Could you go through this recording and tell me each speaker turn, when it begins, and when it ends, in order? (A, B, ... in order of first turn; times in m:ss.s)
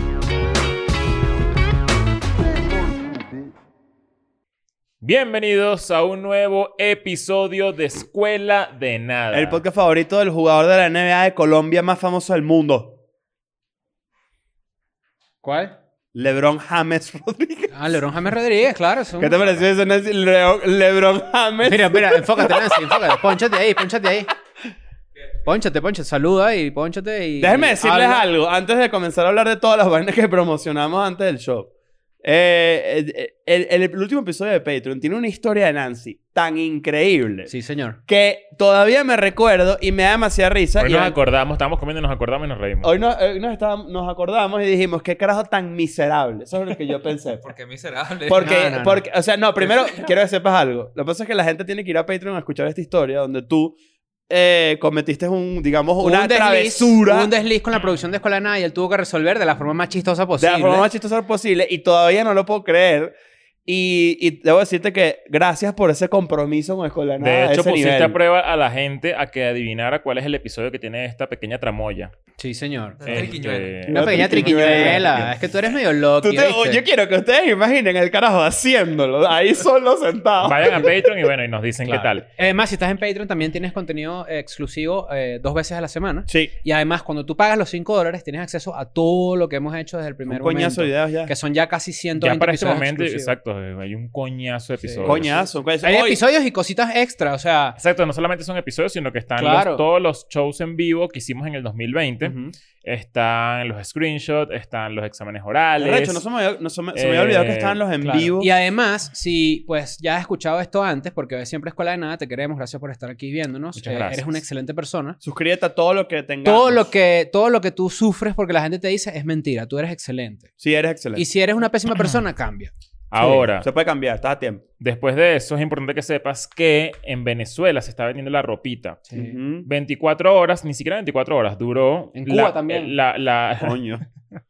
0:05.0-0:09.6 A
0:09.3-0:13.0 B
0:15.4-0:15.7 C
0:16.1-0:17.7 B
0:17.7-0:19.4 C
0:19.2-0:23.2 B
0:21.6-0:24.3 C
0:25.4-0:28.2 C
0:27.4-0:31.7 B
0:32.2-0:37.5 B
0:37.5-0:38.0 C
0:38.1-0:41.2 B
0:40.8-0:42.9 A
0:42.8-0:47.5 B
0:47.4-0:48.6 D
0:48.3-0:53.8 B
0:48.4-0:49.0 C
0:49.7-0:50.1 D
0:54.3-0:57.3 B
0:56.0-1:00.9 C
1:00.4-1:03.1 B
1:03.6-1:08.2 B
1:07.2-1:12.1 A
1:12.4-1:13.3 C
1:13.0-1:13.8 D
1:13.0-1:15.1 A
1:13.9-1:16.8 C
1:13.9-1:15.5 B
1:16.2-1:21.1 B
1:20.4-1:22.2 A
1:21.8-1:33.3 C
1:26.3-1:26.5 B
1:30.3-1:31.3 B
1:32.2-1:35.4 A
1:34.8-1:37.8 C
1:35.0-1:36.2 B
1:37.8-1:46.2 A
1:39.4-1:39.8 C
1:42.2-1:42.5 C
1:45.8-1:48.5 B
1:46.9-1:47.8 A
1:48.0-1:55.2 C
1:53.8-1:54.4 A
1:55.2-1:56.9 B
1:56.4-2:00.5 C
2:00.6-2:01.2 B
2:01.2-2:03.5 C
2:03.1-2:03.7 A
2:03.6-2:04.6 B
2:04.8-2:09.0 A
2:09.1-2:09.4 C
2:09.1-2:09.7 B
2:09.6-2:13.8 A
2:12.1-2:12.9 C
2:13.6-2:14.0 B